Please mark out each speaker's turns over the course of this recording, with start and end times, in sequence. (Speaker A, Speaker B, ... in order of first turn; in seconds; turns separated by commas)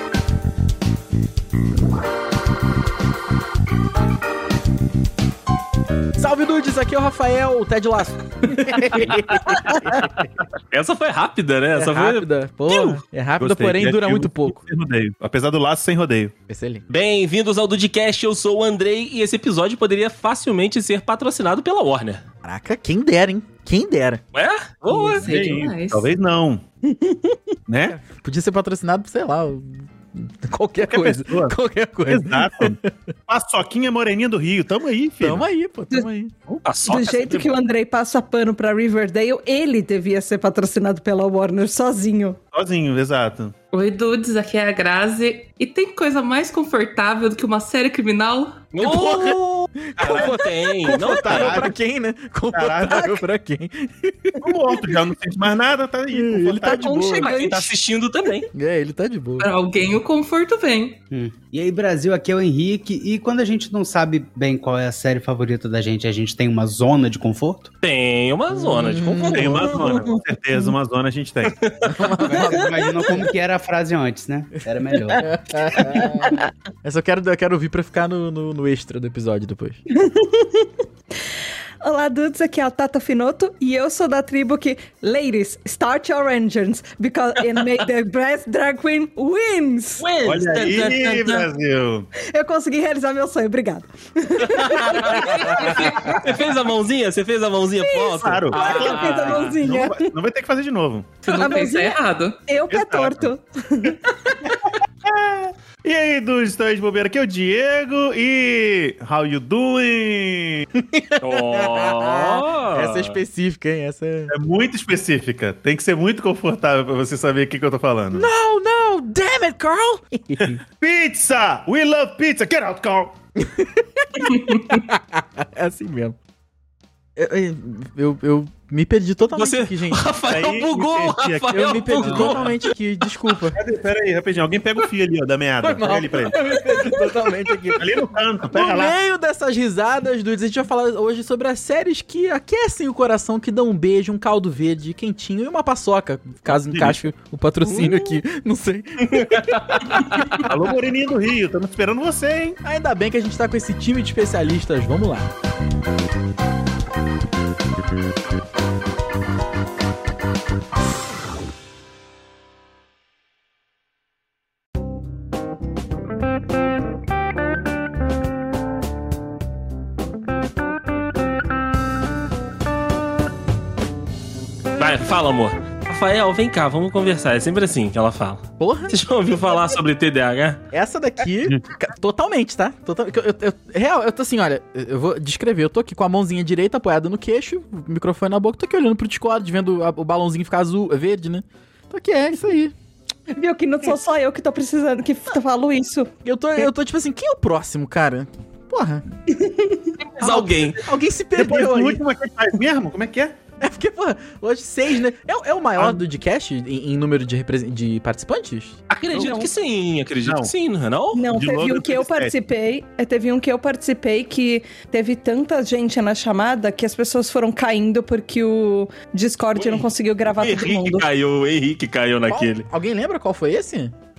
Speaker A: 6.2-10.1, Speaker B: 9.0-10.0, Speaker B: 10.7-13.0, Speaker A: 11.7-14.6, Speaker C: 13.4-16.3, Speaker A: 16.5-16.8, Speaker B: 16.9-22.2, Speaker A: 22.4-24.2, Speaker B: 24.3-25.6, Speaker D: 24.9-26.1, Speaker C: 25.2-26.6, Speaker C: 27.7-27.9, Speaker A: 27.9-32.9, Speaker C: 30.8-35.5, Speaker A: 35.2-36.3, Speaker B: 36.6-37.6, Speaker E: 36.8-42.4, Speaker C: 42.5-43.5, Speaker D: 43.7-48.7, Speaker B: 48.7-51.6, Speaker A: 48.8-54.4, Speaker C: 50.0-50.3, Speaker C: 50.9-51.8, Speaker C: 52.5-53.2, Speaker C: 54.4-57.1, Speaker A: 56.1-57.4, Speaker B: 56.6-58.5, Speaker E: 57.1-57.6, Speaker A: 58.5-59.5, Speaker D: 59.4-61.0, Speaker F: 61.1-67.7, Speaker B: 67.8-69.9, Speaker A: 68.5-69.9, Speaker C: 69.3-71.6, Speaker B: 71.5-72.0, Speaker A: 71.9-72.7, Speaker F: 72.3-75.3, Speaker A: 75.2-79.8, Speaker E: 79.9-80.7, Speaker E: 81.8-90.1, Speaker B: 90.0-91.5, Speaker C: 90.2-92.1, Speaker E: 92.2-96.2, Speaker B: 94.4-99.6, Speaker C: 95.0-96.2, Speaker E: 97.9-100.1, Speaker C: 98.1-101.2, Speaker D: 101.2-102.4, Speaker E: 101.3-104.0, Speaker C: 102.7-103.3, Speaker C: 104.5-110.7, Speaker A: 111.0-114.3, Speaker B: 111.2-113.2, Speaker C: 114.3-118.3, Speaker A: 118.1-120.6, Speaker C: 120.4-123.1, Speaker A: 123.4-126.2, Speaker A: 127.2-130.0, Speaker B: 129.2-132.7, Speaker C: 130.3-132.5, Speaker A: 131.5-133.6, Speaker C: 133.5-136.4, Speaker A: 135.6-137.8, Speaker C: 137.8-138.9, Speaker A: 138.5-150.4, Speaker C: 146.5-147.0, Speaker B: 147.6-148.2, Speaker B: 149.0-150.4, Speaker C: 150.4-152.6, Speaker A: 152.6-155.3, Speaker B: 174.8-180.6, Speaker A: 178.6-179.0, Speaker A: 180.7-192.7, Speaker E: 193.3-196.1, Speaker A: 196.2-199.0, Speaker E: 199.3-199.9, Speaker B: 200.0-200.8, Speaker A: 200.2-202.0, Speaker C: 201.3-203.4, Speaker A: 203.6-208.8, Speaker C: 205.8-206.0, Speaker B: 208.9-211.2, Speaker C: 209.1-209.5, Speaker C: 210.2-210.5, Speaker E: 211.1-221.1, Speaker C: 211.3-212.3, Speaker B: 219.6-222.7, Speaker A: 222.3-223.9